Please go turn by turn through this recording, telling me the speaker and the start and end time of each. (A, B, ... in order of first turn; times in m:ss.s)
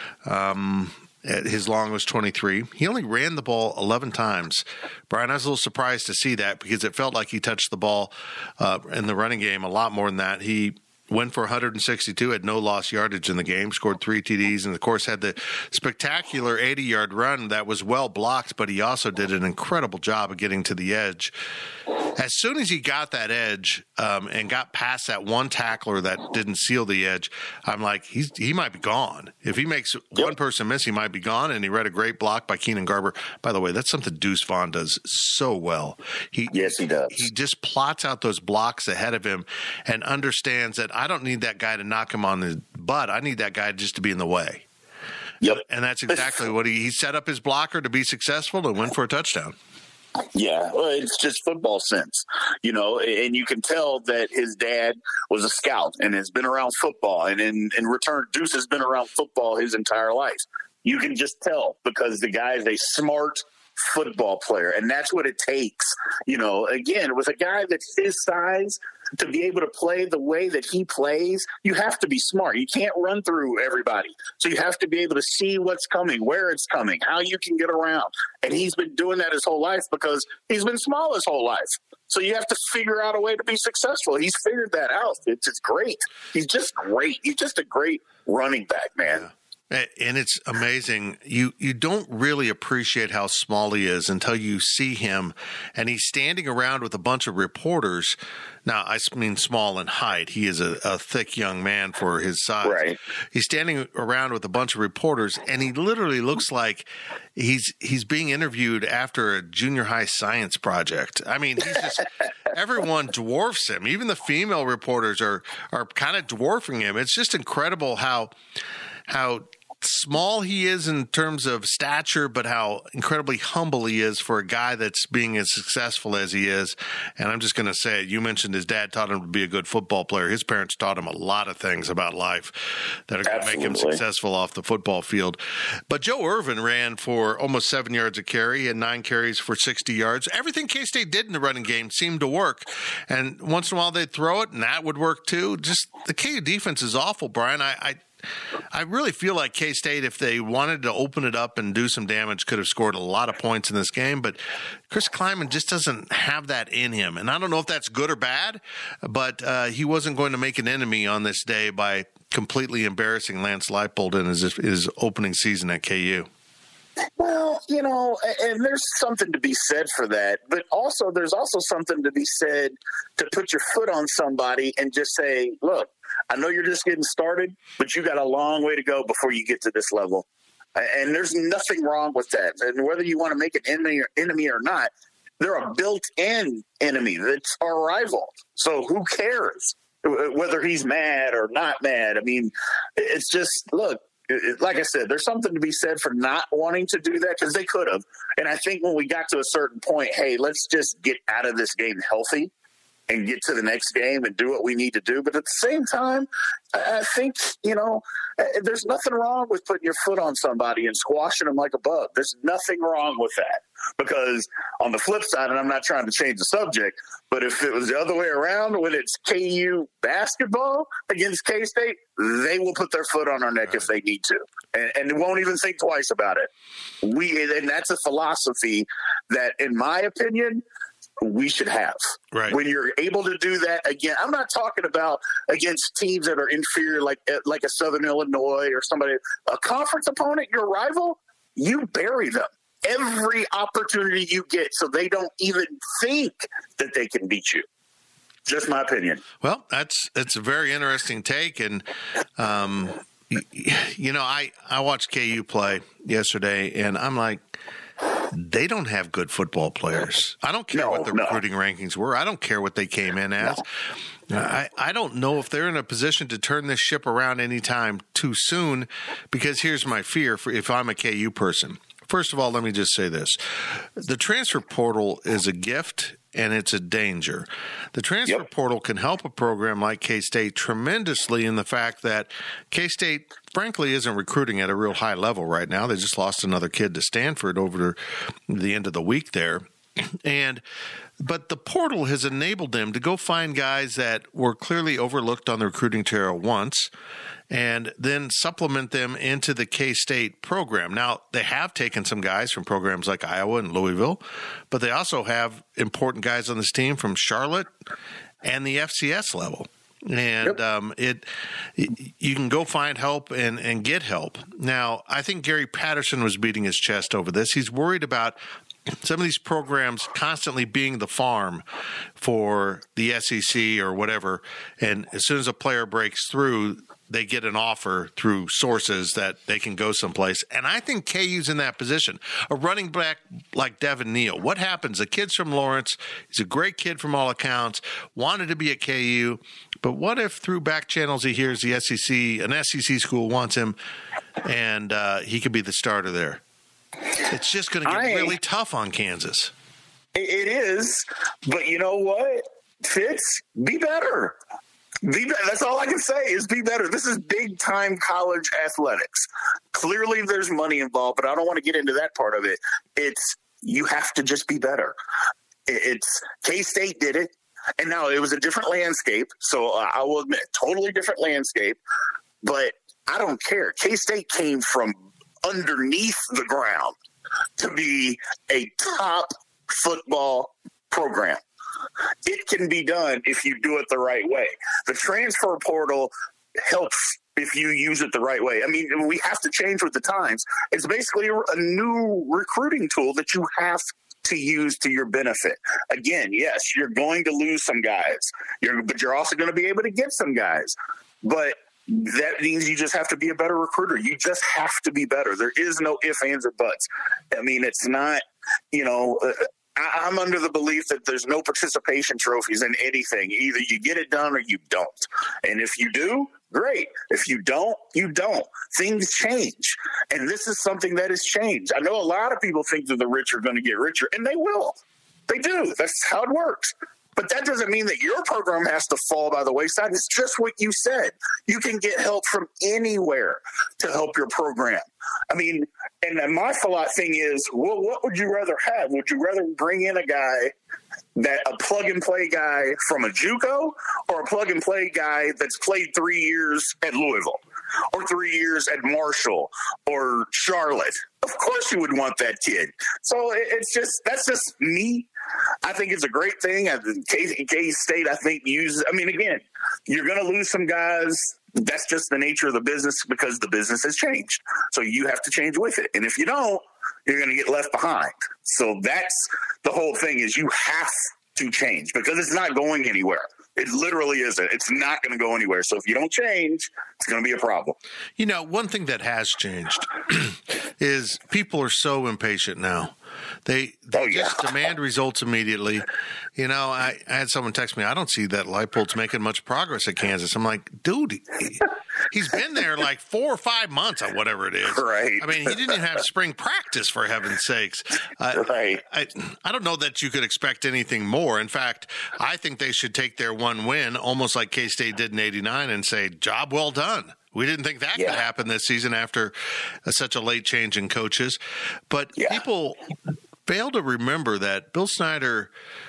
0:00.2-0:21.3 A
0:22.1-0:44.6 A
0:36.5-0:37.2 B
0:45.4-0:46.3 B
0:45.4-0:49.6 A
0:50.3-1:29.2 B
1:29.1-1:42.8 A
1:42.6-1:43.0 B
1:43.3-1:58.3 A
1:59.1-2:28.0 A
2:13.2-2:14.0 B
2:28.7-2:34.4 A
2:34.9-2:46.3 A
2:47.2-3:00.2 B
3:00.8-3:22.5 B
3:23.1-3:46.5 B
3:47.0-3:50.6 B
3:51.2-4:07.6 B
4:08.5-4:09.2 B
4:09.4-4:11.8 A
4:12.4-4:17.4 A
4:18.3-4:23.7 A
4:20.7-4:21.4 B
4:24.3-4:48.0 A
4:48.5-4:50.6 A
4:51.2-4:56.9 A
4:57.5-5:07.7 A
5:08.4-5:11.2 A
5:11.8-5:18.4 A
5:19.0-5:21.6 A
5:22.2-5:43.8 A
5:44.4-5:46.4 A
5:47.3-5:49.5 A
5:47.9-5:48.4 B
5:50.1-5:54.4 B
5:55.0-6:04.9 B
6:05.7-6:11.8 B
6:12.4-6:16.9 B
6:17.6-6:21.4 B
6:22.2-7:20.5 B
7:21.2-7:27.4 B
7:27.9-7:35.1 B
7:35.6-7:57.8 B
7:58.2-8:29.3 A
8:03.9-8:04.5 B
8:14.7-8:15.8 B
8:18.3-8:18.8 B
8:27.9-8:28.2 B
8:29.9-8:31.4 A
8:31.9-8:32.8 A
8:32.2-8:32.4 B
8:33.5-8:35.5 A